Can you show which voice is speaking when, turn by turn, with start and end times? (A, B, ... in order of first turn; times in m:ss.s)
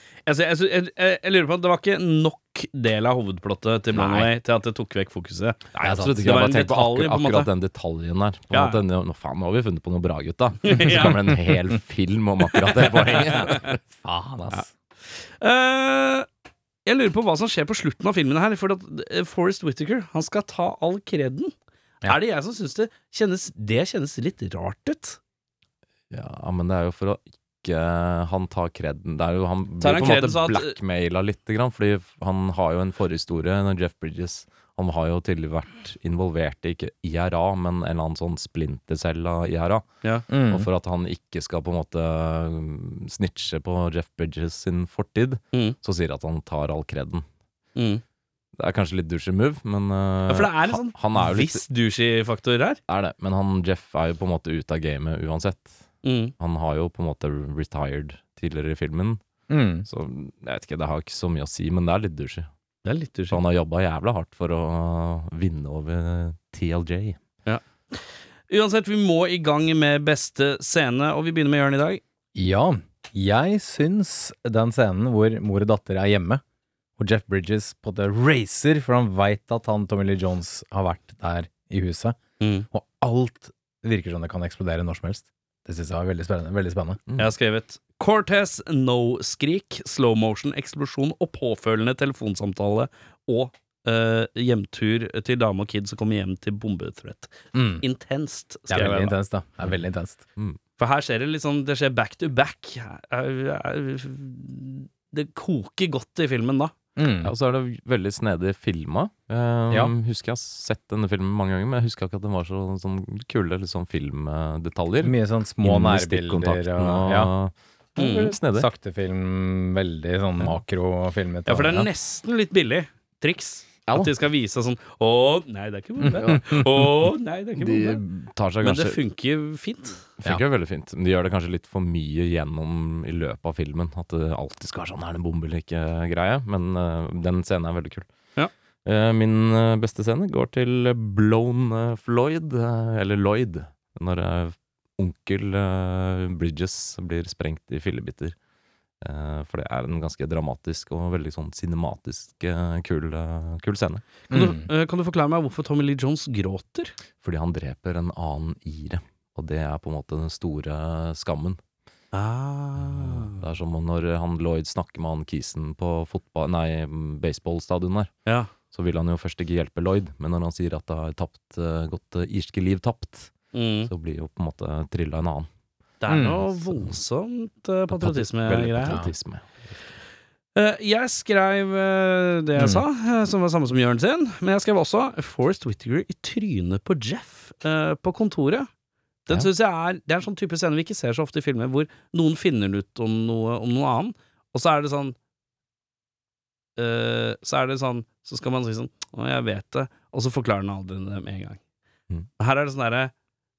0:00.3-0:07.5 A
0:03.9-0:04.3 B
0:05.8-0:13.8 B
0:05.8-0:06.3 C
0:08.5-0:08.8 A
0:10.6-0:11.2 A
0:12.7-0:13.6 A
0:14.0-0:14.7 C
0:15.4-0:16.3 A
0:16.8-0:21.5 A
0:22.1-0:25.2 A
0:26.1-0:47.2 B
0:29.8-0:30.8 A
0:40.3-0:40.7 C
0:47.8-0:48.0 A
0:48.6-0:51.6 B
0:50.3-0:52.8 A
0:52.9-0:55.8 B
0:56.0-0:56.3 A
0:56.4-0:59.2 B
0:59.5-0:59.9 C
0:59.9-1:02.5 B
1:02.8-1:03.4 A
1:03.3-1:07.2 B
1:07.5-1:12.0 A
1:12.4-1:16.4 C
1:17.0-1:22.2 C
1:22.4-1:22.7 A
1:22.7-1:27.0 C
1:27.1-1:27.3 B
1:27.2-1:39.2 A
1:37.5-1:37.8 C
1:38.7-1:40.2 C
1:40.8-1:46.8 A
1:47.0-1:47.3 C
1:47.2-1:58.7 B
1:55.0-1:57.3 C
1:58.0-1:58.3 A
1:58.5-2:01.8 C
2:01.5-2:08.0 A
2:03.9-2:04.1 B
2:06.2-2:06.7 B
2:07.6-2:09.0 B
2:08.6-2:10.0 A
2:10.2-2:18.1 B
2:18.8-2:28.4 B
2:29.0-2:34.0 B
2:34.3-2:34.7 C
2:34.3-2:36.9 A
2:37.2-2:41.6 B
2:42.1-2:43.4 A
2:42.8-2:48.1 B
2:48.3-2:48.5 A
2:48.7-2:53.3 B
2:53.5-2:53.9 A
2:53.9-2:55.5 B
2:56.0-2:59.0 A
2:56.1-2:56.4 C
2:56.6-2:56.9 B
2:57.9-2:59.5 B
3:00.6-3:08.7 A
3:02.6-3:02.8 C
3:09.3-3:15.2 A
3:16.8-3:21.6 A
3:22.4-3:23.1 A